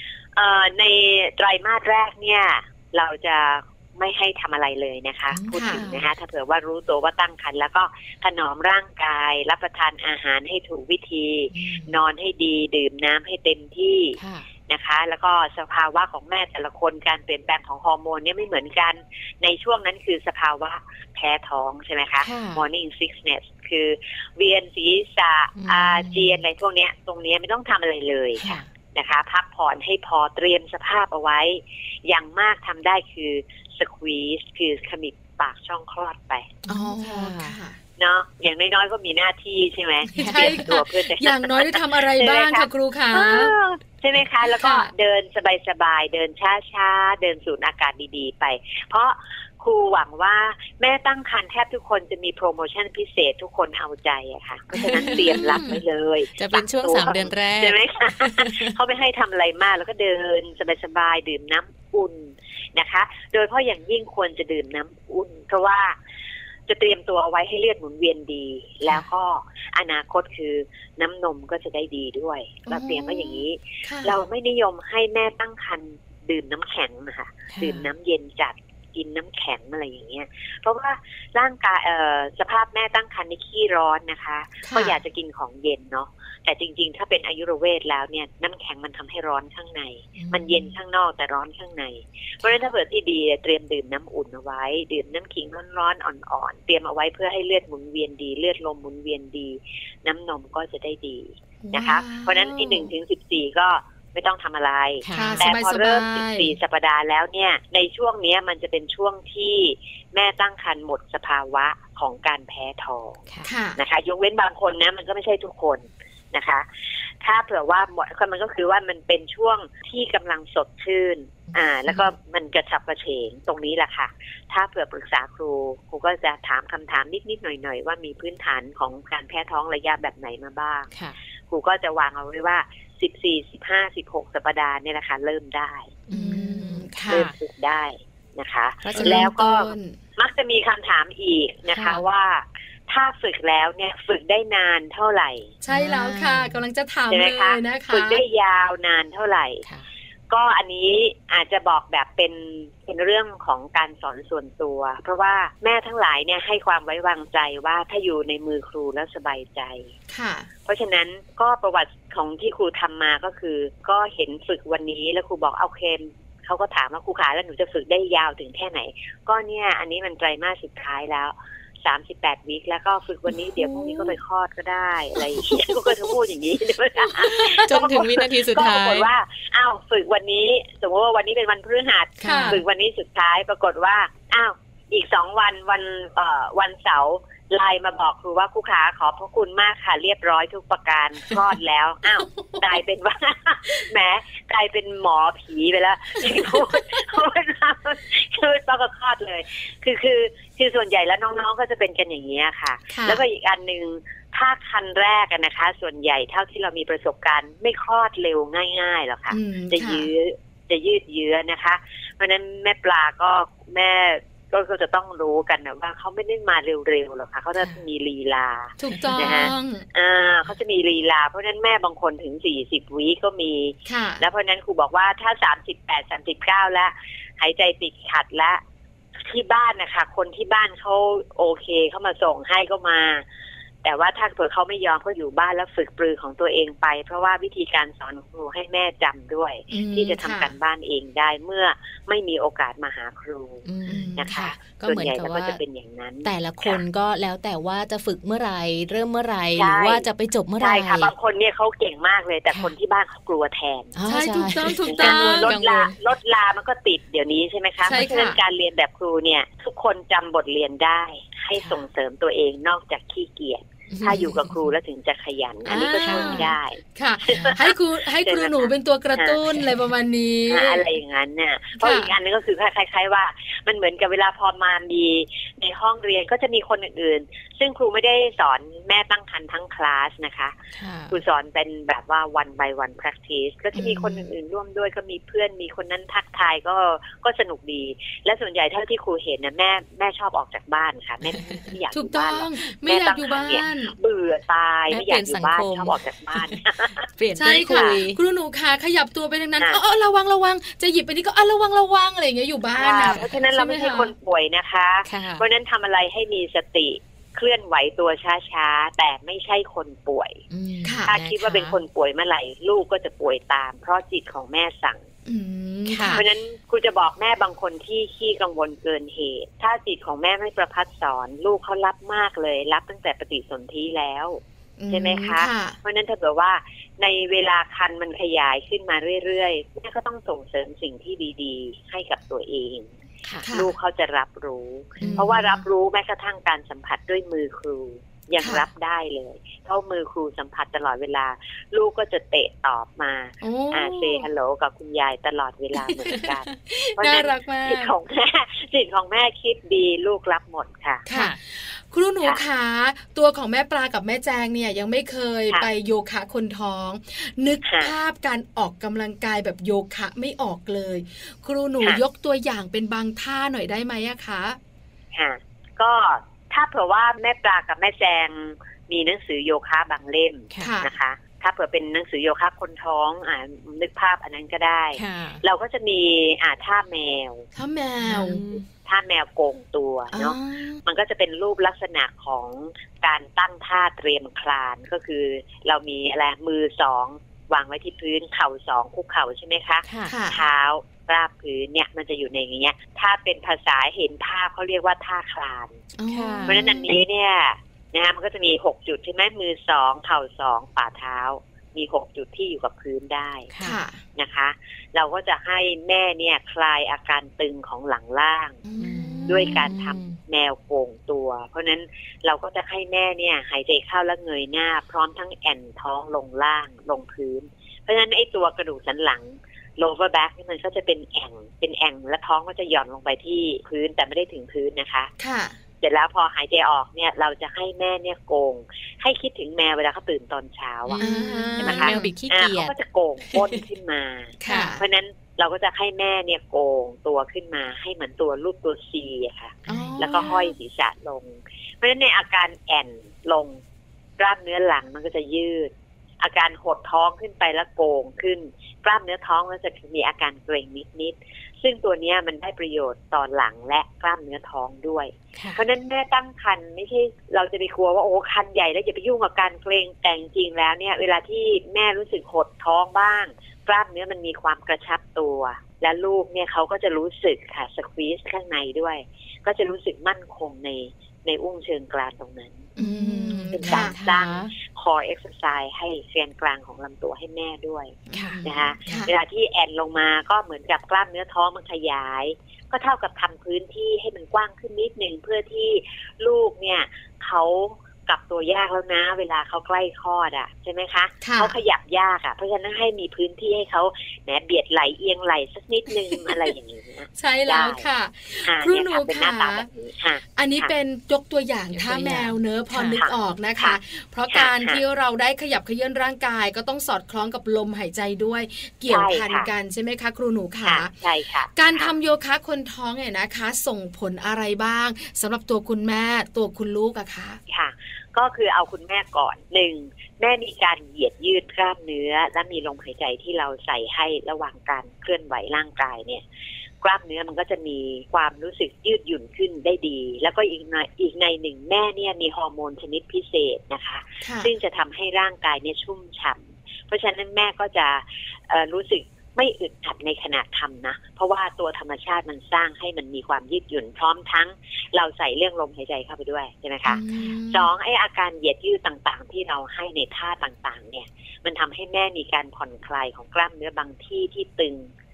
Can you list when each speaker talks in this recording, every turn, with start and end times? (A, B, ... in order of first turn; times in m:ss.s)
0:00.4-0:36.5 A
0:05.3-0:06.0 B
0:05.5-0:05.8 C
0:11.5-0:12.0 B
0:14.2-0:14.5 B
0:22.2-0:22.6 B
0:25.6-0:26.4 B
0:28.4-0:28.7 B
0:36.6-0:37.6 B
0:36.7-0:37.8 C
0:38.0-1:06.0 A
0:40.1-0:40.6 B
0:40.2-0:43.5 C
0:44.4-0:44.9 C
0:54.7-0:55.8 C
0:54.8-0:55.7 B
0:56.4-0:58.7 B
1:06.7-1:53.2 A
1:12.7-1:14.2 C
1:17.5-1:17.9 B
1:24.6-1:25.0 C
1:30.2-1:30.7 B
1:41.6-1:42.9 C
1:45.0-1:45.5 B
1:45.1-1:46.5 C
1:53.4-1:53.8 C
1:53.8-2:10.9 A
2:01.9-2:02.1 B
2:10.9-2:11.2 B
2:11.5-2:15.9 A
2:16.1-2:17.3 B
2:16.1-2:17.2 C
2:17.1-2:25.5 A
2:18.8-2:19.3 B
2:19.0-2:20.0 C
2:21.7-2:22.0 B
2:25.6-2:28.2 C
2:25.7-2:26.6 B
2:27.1-2:29.6 A
2:30.3-2:39.9 A
2:40.1-2:40.5 C
2:40.7-3:48.6 A
2:53.6-2:54.1 C
2:55.3-2:55.8 C
2:57.2-2:59.1 B
3:02.2-3:02.6 B
3:02.2-3:02.6 C
3:12.3-3:12.7 C
3:16.2-3:17.0 C
3:22.9-3:23.2 C
3:29.3-3:30.1 C
3:38.8-3:39.9 C
3:39.2-3:39.5 B
3:43.9-3:44.2 C
3:49.2-3:53.2 A
3:53.8-4:06.8 A
3:59.7-4:00.5 C
4:03.7-4:05.6 B
4:03.9-4:04.2 C
4:06.2-4:11.1 B
4:09.6-4:10.0 A
4:10.6-4:14.0 A
4:14.0-4:16.0 B
4:14.1-4:15.6 C
4:14.8-4:29.4 A
4:17.8-4:18.4 C
4:21.6-4:21.8 B
4:23.9-4:24.6 B
4:25.6-4:30.8 C
4:26.0-4:26.5 B
4:27.3-4:27.6 B
4:29.5-4:29.7 B
4:30.5-4:40.6 A
4:31.8-4:32.1 C
4:40.8-4:41.2 B
4:41.1-4:58.0 A
4:43.7-4:44.2 B
4:51.3-4:51.6 B
4:51.9-4:54.0 C
4:54.9-4:56.6 B
4:57.2-4:58.2 B
4:57.4-5:04.1 C
5:02.7-5:10.4 A
5:03.0-5:03.3 B
5:05.0-5:05.4 B
5:10.5-5:11.8 B
5:10.8-5:11.1 C
5:11.1-5:15.0 A
5:15.2-5:16.2 C
5:15.9-5:16.2 B
5:16.1-5:32.9 A
5:24.8-5:25.8 C
5:33.4-5:33.7 C
5:33.4-5:51.0 A
5:35.0-5:35.6 C
5:35.0-5:35.4 B
5:38.4-5:38.7 C
5:43.4-5:44.2 C
5:46.1-5:47.9 C
5:51.0-6:04.6 C
5:51.1-5:51.4 B
5:57.6-5:57.9 A
6:05.1-6:17.5 A
6:10.6-6:10.9 C
6:15.0-6:15.4 B
6:17.5-6:18.4 C
6:18.1-6:18.6 B
6:18.8-6:35.8 A
6:20.1-6:20.8 C
6:29.8-6:30.2 B
6:30.0-6:30.4 C
6:36.0-6:37.0 C
6:36.1-6:36.6 B
6:36.5-6:43.5 A
6:43.5-6:43.8 B
6:43.6-6:44.0 C
6:44.2-6:48.6 A
6:48.6-6:49.7 C
6:48.8-6:50.2 B
6:49.2-7:05.1 A
7:05.2-7:05.6 C
7:05.8-7:23.6 A
7:10.9-7:12.7 B
7:11.0-7:12.1 C
7:13.3-7:13.6 B
7:14.4-7:14.8 C
7:14.5-7:14.7 B
7:19.7-7:20.3 B
7:19.7-7:20.5 C
7:24.2-7:52.7 A
7:35.3-7:35.6 B
7:52.8-7:54.0 C
7:52.8-7:54.5 B
7:53.5-8:17.8 A
7:58.1-7:59.1 C
7:58.1-7:59.0 B
8:11.2-8:11.5 C
8:17.2-8:19.7 C
8:18.4-8:20.7 A
8:20.4-8:30.9 C
8:21.7-8:23.0 B
8:23.0-8:23.8 A
8:24.3-8:24.8 A
8:28.9-8:29.5 A
8:30.6-8:31.9 A
8:31.5-8:37.4 C
8:37.5-8:46.2 A
8:46.8-9:14.9 A
8:54.2-8:54.5 C
9:06.9-9:07.7 C